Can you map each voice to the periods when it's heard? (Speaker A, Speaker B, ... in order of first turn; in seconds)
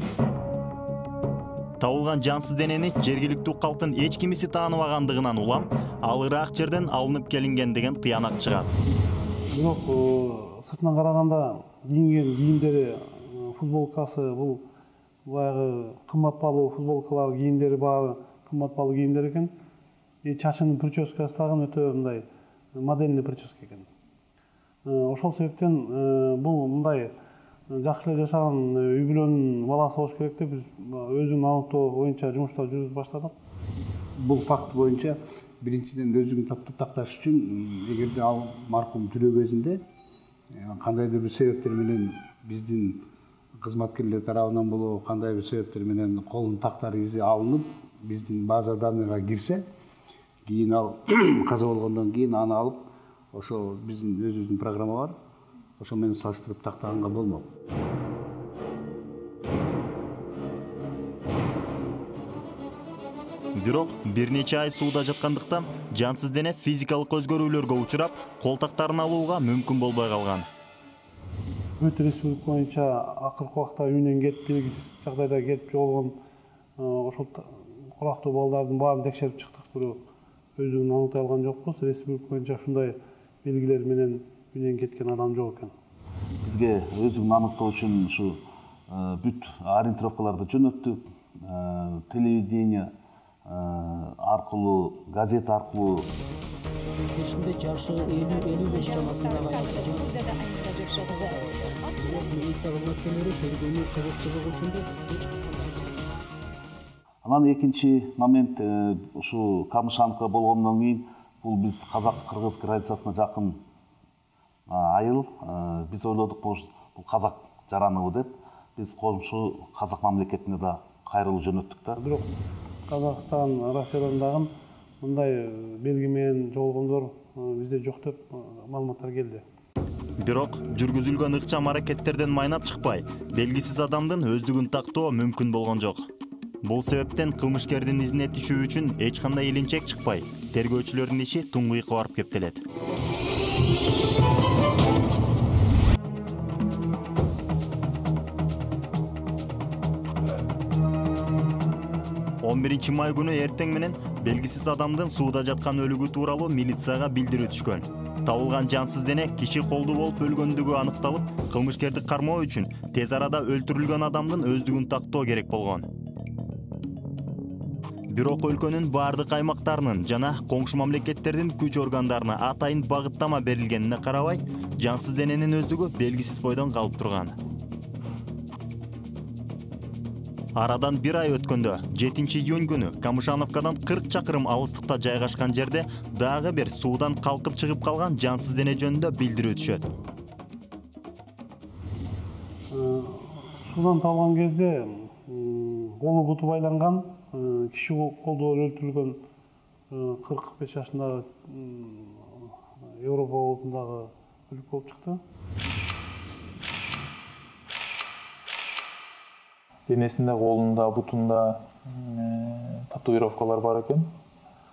Speaker A: 1.8-8.7, 63.6-70.5, 130.2-136.1, 136.6-142.6, 152.4-165.9, 168.1-177.4, 180.6-189.9
Speaker B: 9.5-14.7, 15.2-19.5, 20.2-23.9, 24.9-27.1, 27.7-33.4, 71.8-76.2, 76.8-80.0, 80.6-85.7, 122.0-122.3, 122.9-129.4, 192.7-199.2, 199.9-205.2
Speaker C: 34.2-39.8, 40.5-43.0, 43.6-49.7, 50.5-55.2, 55.8-57.5
Speaker D: 86.4-92.9, 93.5-96.1, 107.2-113.6, 114.7-122.0
Speaker E: 97.1-106.1
Speaker F: 209.9-214.1